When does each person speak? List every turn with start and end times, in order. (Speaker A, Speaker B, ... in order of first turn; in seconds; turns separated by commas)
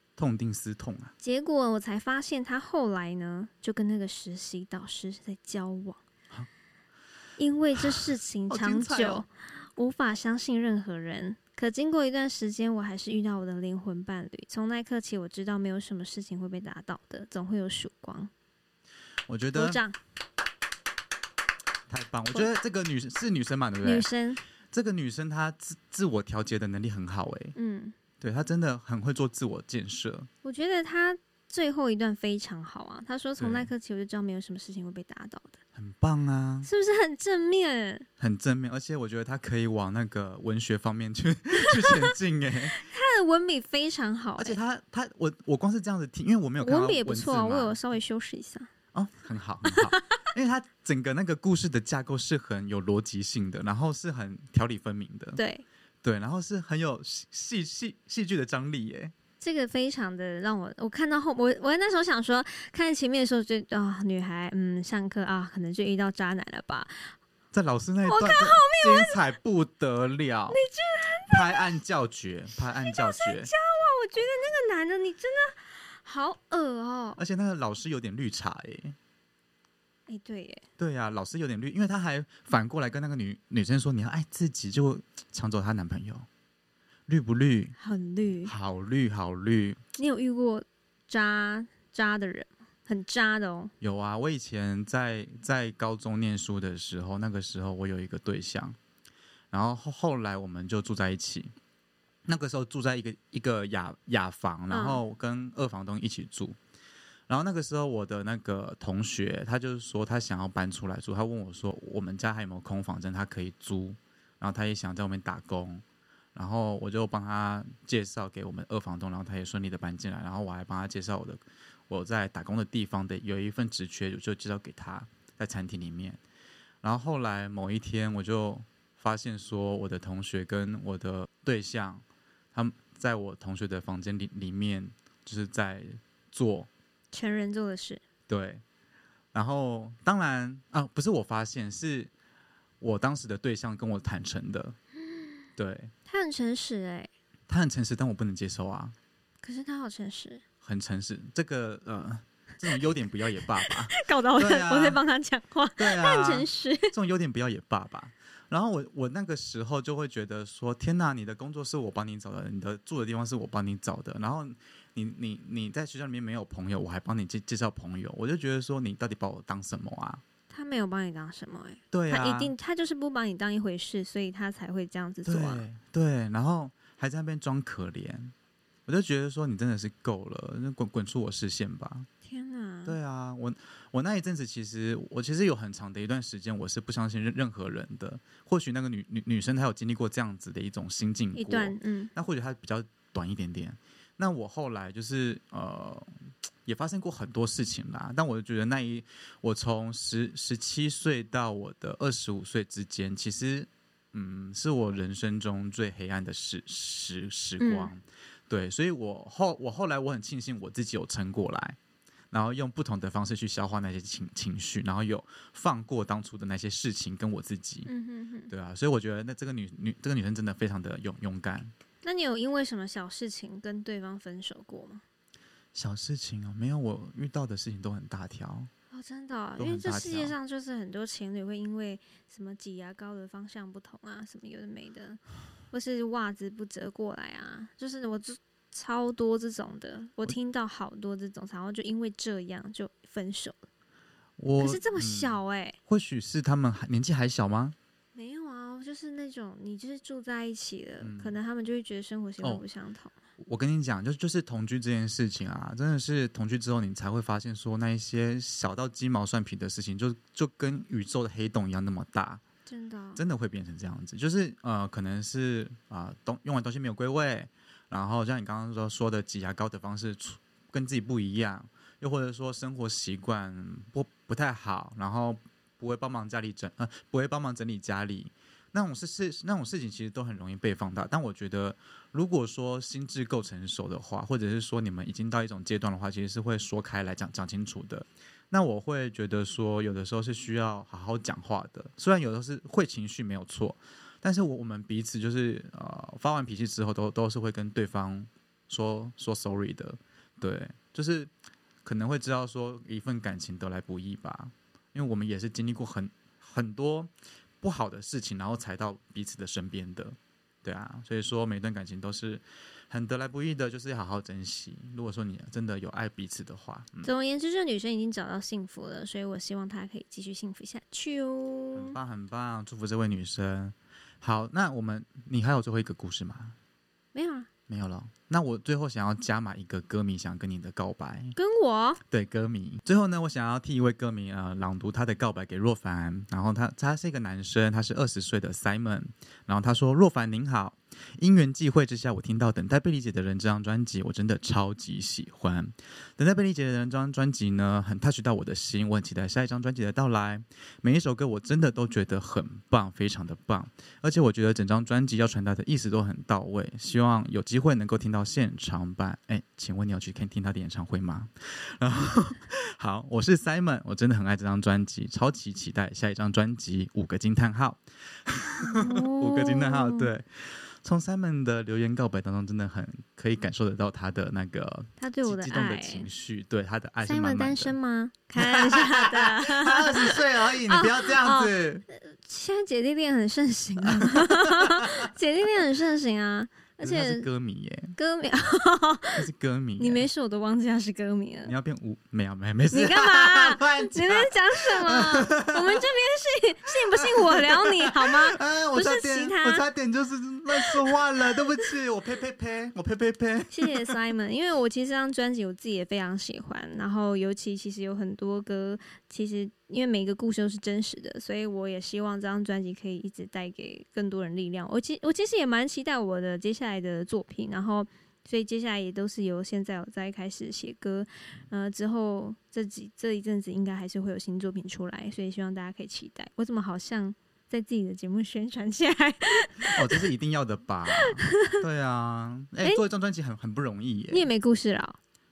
Speaker A: 0.2-1.1, Speaker B: 1.2-6.0, Speaker B: 7.4-18.3, Speaker A: 7.8-9.2, Speaker A: 19.3-19.8, Speaker B: 19.5-20.0, Speaker A: 21.9-24.1, Speaker B: 23.8-24.4, Speaker A: 24.7-27.6, Speaker B: 27.6-28.0, Speaker A: 28.2-30.3, Speaker B: 30.4-35.6, Speaker A: 33.4-33.7, Speaker A: 35.8-36.7, Speaker B: 36.6-38.1, Speaker A: 38.2-42.8, Speaker B: 41.6-42.1, Speaker B: 42.7-44.6, Speaker A: 44.4-47.8, Speaker B: 46.6-48.7, Speaker A: 48.9-55.4, Speaker B: 49.7-50.0, Speaker B: 55.4-55.6, Speaker A: 56.0-59.1, Speaker B: 59.4-67.2, Speaker A: 67.5-70.6, Speaker B: 68.1-69.2, Speaker B: 70.5-71.7, Speaker A: 71.3-73.5, Speaker B: 72.6-77.2, Speaker A: 77.2-79.0, Speaker B: 80.1-80.6, Speaker A: 80.8-86.3, Speaker A: 87.1-87.8, Speaker B: 87.8-88.5, Speaker A: 88.5-89.8, Speaker B: 90.0-93.7, Speaker A: 93.8-98.8, Speaker A: 99.5-101.5, Speaker A: 102.3-106.6, Speaker B: 104.7-105.0, Speaker A: 107.3-115.8, Speaker A: 116.3-126.2, Speaker A: 126.8-136.7, Speaker B: 137.1-138.0, Speaker A: 138.3-138.6, Speaker A: 139.3-142.1, Speaker A: 142.8-144.8, Speaker A: 145.6-145.9, Speaker B: 146.1-147.1, Speaker A: 147.5-149.0, Speaker B: 149.4-150.4, Speaker A: 150.6-155.0, Speaker B: 153.6-156.9, Speaker A: 155.8-170.2, Speaker B: 170.5-175.6, Speaker A: 171.9-172.5, Speaker A: 175.3-178.3, Speaker A: 178.9-182.1, Speaker B: 182.2-183.0, Speaker A: 182.8-211.8, Speaker B: 191.3-192.1, Speaker B: 207.6-207.9, Speaker A: 212.3-217.9, Speaker B: 217.9-218.5, Speaker A: 218.5-221.7, Speaker B: 222.0-225.0, Speaker A: 225.7-228.7, Speaker B: 228.9-243.6, Speaker A: 229.6-230.3, Speaker A: 244.4-247.8, Speaker B: 244.6-245.8, Speaker B: 248.2-253.1, Speaker A: 251.0-251.3, Speaker A: 253.4-262.4, Speaker B: 262.7-263.2, Speaker A: 263.2-301.3, Speaker A: 301.8-317.1, Speaker B: 317.0-322.0, Speaker A: 321.7-326.6, Speaker B: 327.1-327.5, Speaker A: 327.7-331.4, Speaker B: 331.4-332.0, Speaker A: 332.1-377.8, Speaker B: 368.6-370.1, Speaker B: 375.0-376.1, Speaker B: 377.1-387.3, Speaker A: 378.4-381.8, Speaker A: 383.9-385.1, Speaker A: 386.8-388.0, Speaker B: 388.0-391.5, Speaker A: 389.1-390.1, Speaker A: 391.5-395.9, Speaker B: 392.7-399.6, Speaker A: 396.7-403.9, Speaker B: 400.6-400.9, Speaker B: 403.5-430.1, Speaker A: 429.7-434.3, Speaker B: 431.0-431.6, Speaker B: 434.1-435.0